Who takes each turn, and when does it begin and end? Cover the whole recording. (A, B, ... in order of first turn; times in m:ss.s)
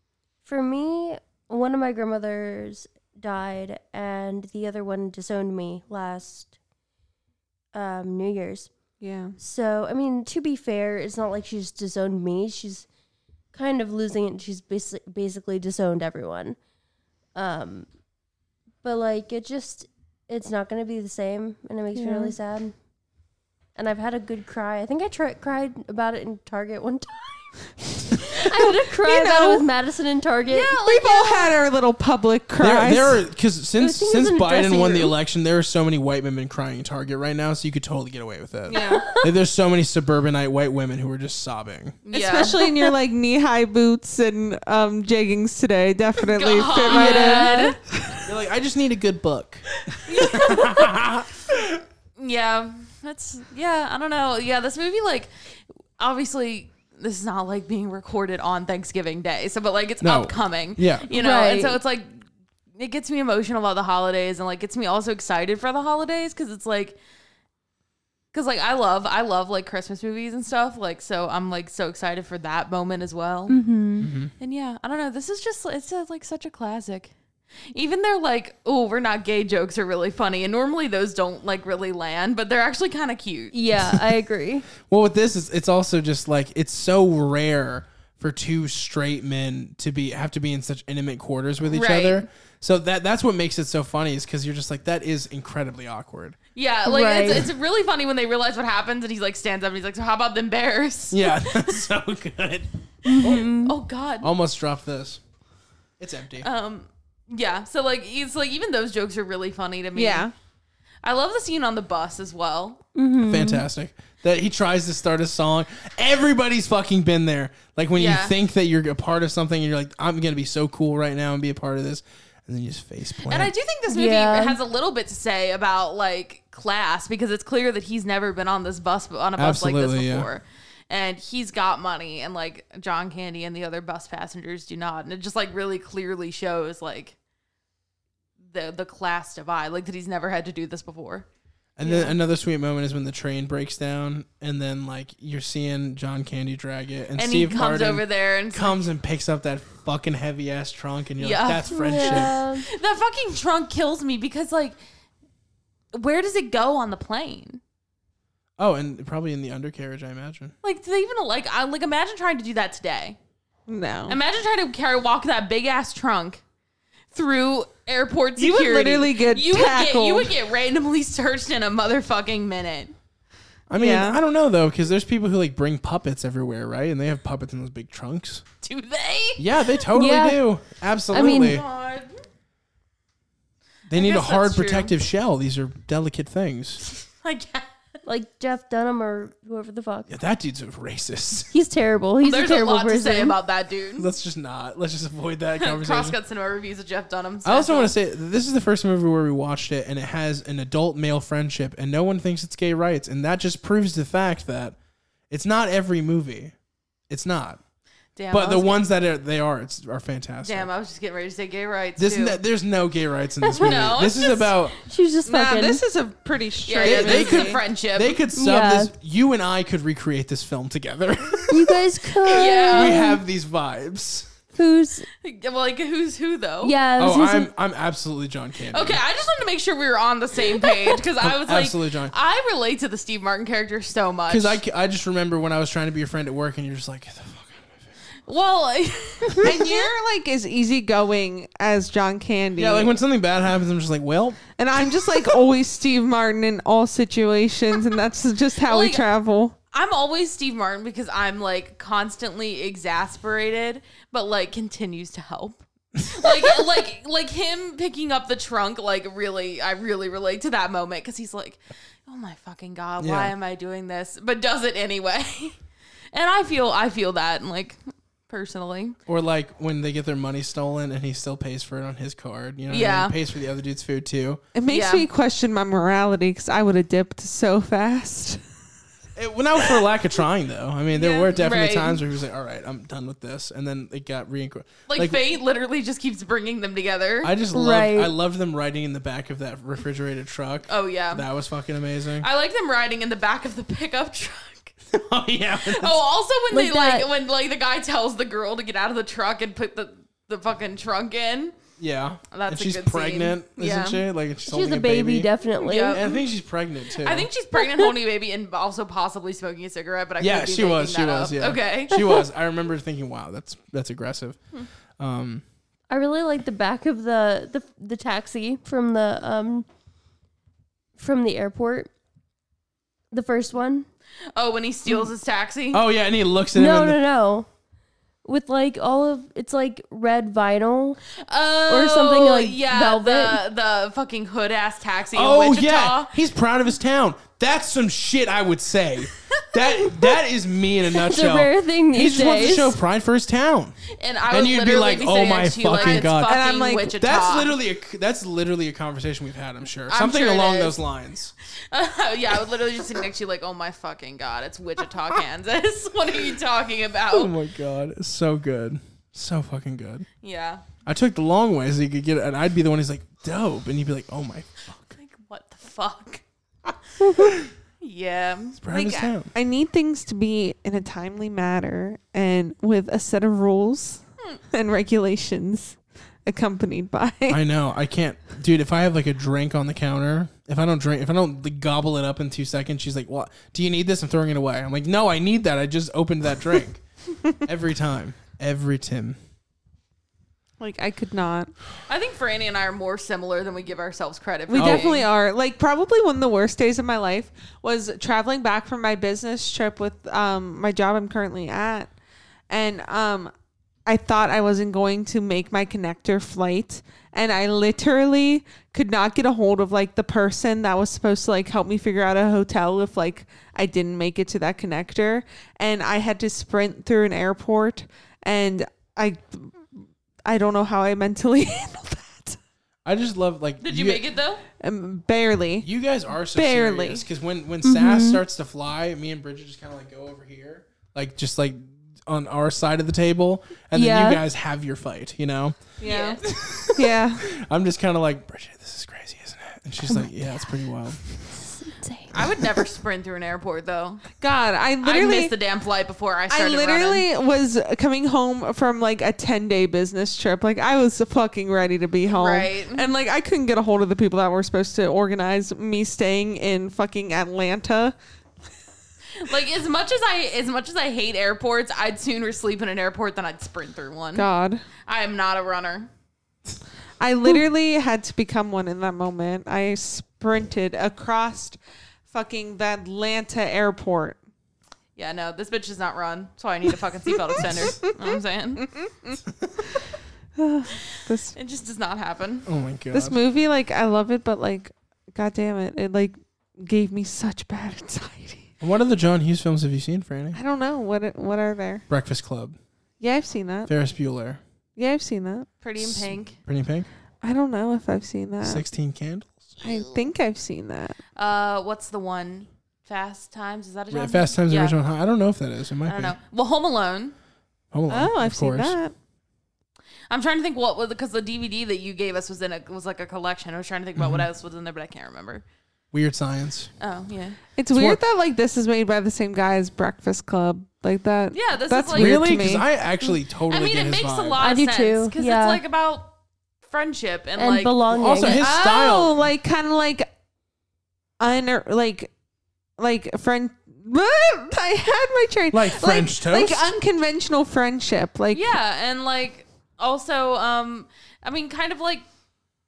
0:00.4-0:06.5 A
0:07.7-0:08.7 A
0:09.0-0:09.4 B
0:09.4-0:12.9 A
0:13.5-0:16.6 A
0:17.4-0:17.9 A
0:18.8-0:22.7 A
0:21.9-0:22.4 B
0:23.8-0:30.7 A
0:29.0-0:29.6 B
0:30.5-0:31.6 C
0:30.8-0:33.2 B
0:32.6-0:42.0 D
0:33.8-0:35.1 A
0:38.7-0:39.0 B
0:38.7-0:39.3 A
0:42.0-0:42.6 C
0:42.1-0:48.2 B
0:46.2-0:47.8 C
0:46.9-0:47.7 A
0:48.2-0:51.8 D
0:50.0-0:50.8 C
0:52.2-0:55.3 C
0:56.0-1:02.2 C
1:00.0-1:01.1 D
1:01.1-1:01.8 A
1:02.8-1:07.0 C
1:08.3-1:13.6 C
1:13.5-1:14.1 A
1:14.0-1:14.3 D
1:14.4-1:17.1 C
1:17.7-1:23.5 C
1:23.5-1:24.6 A
1:24.8-1:36.4 D
1:31.7-1:32.3 C
1:36.5-1:41.8 C
1:36.8-1:37.5 A
1:41.1-1:42.7 D
1:43.0-1:43.7 A
1:43.2-1:43.4 D
1:43.2-1:44.3 C
1:44.2-1:45.2 D
1:46.0-1:46.5 D
1:46.4-1:50.3 C
1:49.9-1:50.3 B
1:51.0-1:52.8 C
1:53.0-1:53.6 A
1:53.2-2:03.5 D
1:57.9-1:58.3 C
2:03.2-2:17.1 C
2:03.9-2:04.6 A
2:09.4-2:10.3 D
2:18.5-2:21.3 C
2:21.8-2:32.4 D
2:21.8-2:22.2 C
2:27.2-2:28.8 C
2:31.2-2:34.8 C
2:31.7-2:32.6 A
2:35.9-2:37.6 C
2:38.6-2:40.5 D
2:40.6-2:43.2 C
2:43.7-2:44.2 B
2:44.1-2:46.4 C
2:47.1-2:52.9 C
2:48.4-2:50.3 B
2:53.7-2:58.4 D
2:53.7-2:54.2 B
2:58.6-2:59.4 C
2:59.4-3:01.6 D
2:59.9-3:00.4 A
3:01.1-3:02.2 C
3:01.1-3:01.6 A
3:03.9-3:06.8 D
3:03.9-3:04.9 C
3:06.8-3:07.7 C
3:08.0-3:10.1 A
3:10.1-3:11.5 D
3:11.5-3:13.3 A
3:12.2-3:14.1 C
3:14.0-3:16.2 D
3:15.6-3:17.9 C
3:17.4-3:24.8 D
3:25.3-3:26.5 D
3:27.1-3:27.6 D
3:28.2-3:28.8 C
3:28.3-3:30.7 D
3:30.4-3:32.4 C
3:32.0-3:34.8 D
3:33.4-3:35.8 A
3:33.5-3:34.4 C
3:35.2-3:37.6 B
3:36.6-3:38.2 C
3:36.8-3:44.3 D
3:38.3-3:38.9 A
3:41.5-3:43.2 A
3:42.3-3:43.1 C
3:44.5-3:45.1 A
3:45.2-3:46.7 C
3:46.6-3:47.5 A
3:47.0-3:49.0 D
3:48.7-3:54.6 C
3:51.2-3:52.1 D
3:54.3-3:57.9 D
3:58.3-3:59.9 C
3:59.4-4:02.9 B
4:02.6-4:04.4 D
4:04.5-4:09.5 B
4:08.6-4:09.0 C
4:09.7-4:25.6 C
4:16.2-4:16.6 D
4:23.0-4:23.3 D
4:26.1-4:29.0 C
4:29.1-4:34.4 D
4:32.7-4:33.1 C
4:34.5-4:38.4 B
4:34.7-4:35.1 C
4:39.2-4:45.2 D
4:40.9-4:42.0 C
4:44.9-4:47.3 C
4:47.2-4:52.3 D
4:47.5-4:48.1 A
4:50.7-4:51.2 C
4:52.2-4:54.7 C
4:54.9-4:56.0 D
4:55.6-5:01.5 C
4:56.5-4:57.1 A
5:01.8-5:05.3 D
5:02.3-5:04.0 C
5:04.4-5:06.0 A
5:05.6-5:06.2 C
5:05.9-5:07.3 D
5:07.0-5:12.0 C
5:10.2-5:14.4 D
5:15.0-5:15.4 D
5:15.9-5:19.7 A
5:21.0-5:21.9 A
5:23.1-5:23.8 A
5:24.3-5:25.8 C
5:25.7-5:27.0 D
5:26.5-5:27.5 A
5:28.2-5:31.0 A
5:31.2-5:36.1 C
5:31.7-5:33.4 A
5:35.1-5:43.8 D
5:40.9-5:42.8 A
5:43.9-5:47.5 C
5:44.3-5:46.4 D
5:45.8-5:46.9 B
5:46.9-5:51.3 D
5:49.9-5:50.8 C
5:51.6-5:57.3 C
5:57.1-6:00.0 D
6:00.2-6:00.6 C
6:00.8-6:04.8 D
6:04.9-6:06.2 C
6:07.0-6:08.6 C
6:07.0-6:07.5 D
6:08.6-6:09.3 D
6:08.7-6:17.4 B
6:17.3-6:26.8 D
6:27.4-6:29.2 D
6:30.6-6:31.5 B
6:31.9-6:35.1 C
6:34.5-6:41.9 B
6:34.5-6:34.9 D
6:42.5-6:43.3 B
6:43.8-6:59.7 B
7:00.2-7:02.4 B
7:02.8-7:04.0 D
7:03.6-7:04.4 C
7:04.6-7:05.7 B
7:05.6-7:21.0 D
7:06.3-7:07.0 B
7:07.6-7:08.2 A
7:13.7-7:14.2 A
7:15.8-7:17.3 B
7:15.8-7:16.2 C
7:19.8-7:20.1 A
7:21.6-7:22.2 A
7:22.1-7:24.1 C
7:24.2-7:25.3 B
7:24.8-7:27.0 C
7:26.3-7:37.9 B
7:32.1-7:32.9 C
7:39.2-7:44.3 C
7:44.1-7:44.6 B
7:44.8-7:45.9 C
7:47.0-7:51.6 B
7:52.1-7:54.2 B
7:55.0-7:58.8 C
7:58.8-7:59.2 B
8:00.4-8:01.3 B
8:01.3-8:02.4 C
8:02.4-8:03.2 D
8:02.9-8:08.5 B
8:08.6-8:10.4 D
8:10.3-8:11.8 B
8:11.9-8:12.6 D
8:13.0-8:13.7 B
8:13.7-8:14.4 D
8:14.8-8:15.5 B
8:15.6-8:16.4 C
8:15.8-8:16.9 D
8:17.2-8:18.6 B
8:18.4-8:19.6 D
8:19.6-8:21.0 B
8:21.2-8:24.8 C
8:23.9-8:26.2 D
8:25.8-8:27.1 C
8:27.7-8:28.8 D
8:27.9-8:28.9 B
8:30.1-8:35.4 C
8:34.0-8:34.3 D
8:35.9-8:36.7 D
8:36.8-8:37.4 C
8:37.6-8:42.6 B
8:37.7-8:38.0 D
8:41.3-8:42.5 C
8:41.9-8:44.4 D
8:43.5-8:46.1 C
8:44.4-8:45.6 A
8:46.6-8:47.8 C
8:47.4-8:48.4 A
8:47.9-8:49.3 D
8:48.3-8:50.1 B
8:51.2-8:52.1 B
8:52.8-8:58.4 B
8:55.5-8:56.6 D
8:58.3-9:02.0 C